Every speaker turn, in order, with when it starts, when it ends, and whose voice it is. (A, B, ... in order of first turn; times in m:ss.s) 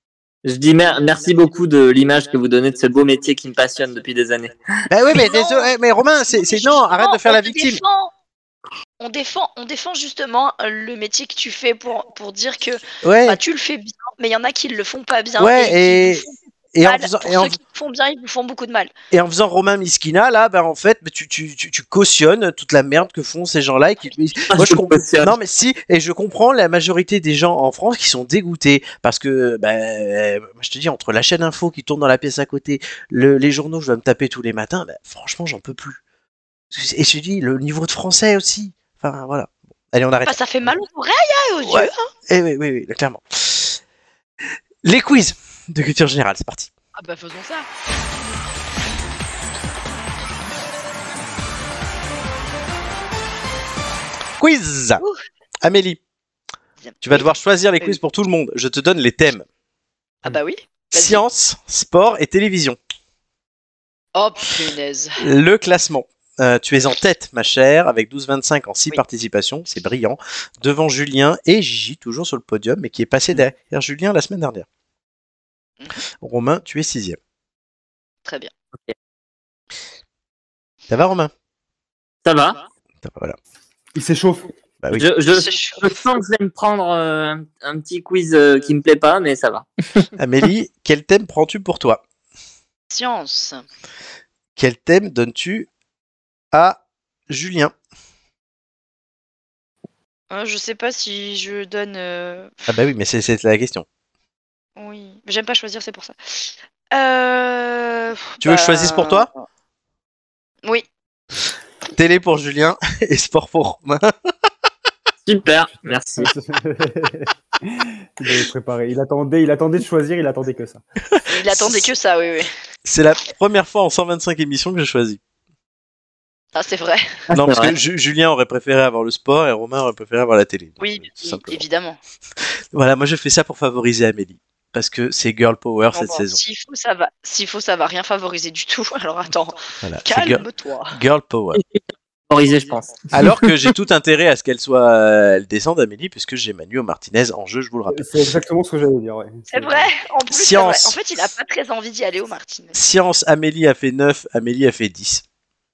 0:00.4-0:04.5 A
0:04.9-0:07.8 B
0:05.1-0:05.7 C
0:06.3-0:08.1 C
0:09.0-0:18.9 C
0:13.0-0:13.4 B
0:15.4-0:17.6 B
0:19.1-0:36.0 B
0:24.5-0:25.3 A
0:36.7-0:40.4 B
0:40.2-0:42.1 C
0:41.6-0:43.8 B
0:44.8-0:46.7 B
0:47.0-0:47.7 C
0:54.4-0:55.0 B
0:55.6-0:56.0 B
0:56.8-0:57.3 C
0:57.0-0:59.4 B
1:00.2-1:01.2 C
1:00.9-1:02.8 B
1:04.1-1:05.2 C
1:05.2-1:14.6 B
1:16.2-1:17.2 B
1:18.2-1:18.5 C
1:20.9-1:21.3 B
1:22.2-1:22.6 A
1:23.0-1:23.4 B
1:23.9-1:24.5 D
1:24.9-1:30.1 A
1:25.3-1:26.0 C
1:30.2-1:32.0 B
1:32.9-1:33.6 C
1:34.6-1:35.7 B
1:36.5-1:37.7 B
1:40.3-1:42.7 C
1:42.7-1:43.8 B
1:44.8-1:49.4 C
1:48.4-1:49.3 B
1:51.9-1:54.1 B
1:55.2-1:56.3 A
1:56.2-2:00.8 D
2:01.1-2:01.9 B
2:01.3-2:02.5 C
2:02.8-2:05.2 B
2:06.5-2:07.1 C
2:07.3-2:07.8 A
2:07.3-2:11.6 B
2:10.8-2:12.0 C
2:12.7-2:16.4 B
2:15.9-2:21.0 C
2:19.8-2:21.6 B
2:21.5-2:23.5 A
2:23.1-2:28.1 B
2:27.9-2:29.9 D
2:29.5-2:32.8 C
2:30.3-2:31.0 B
2:32.7-2:35.2 B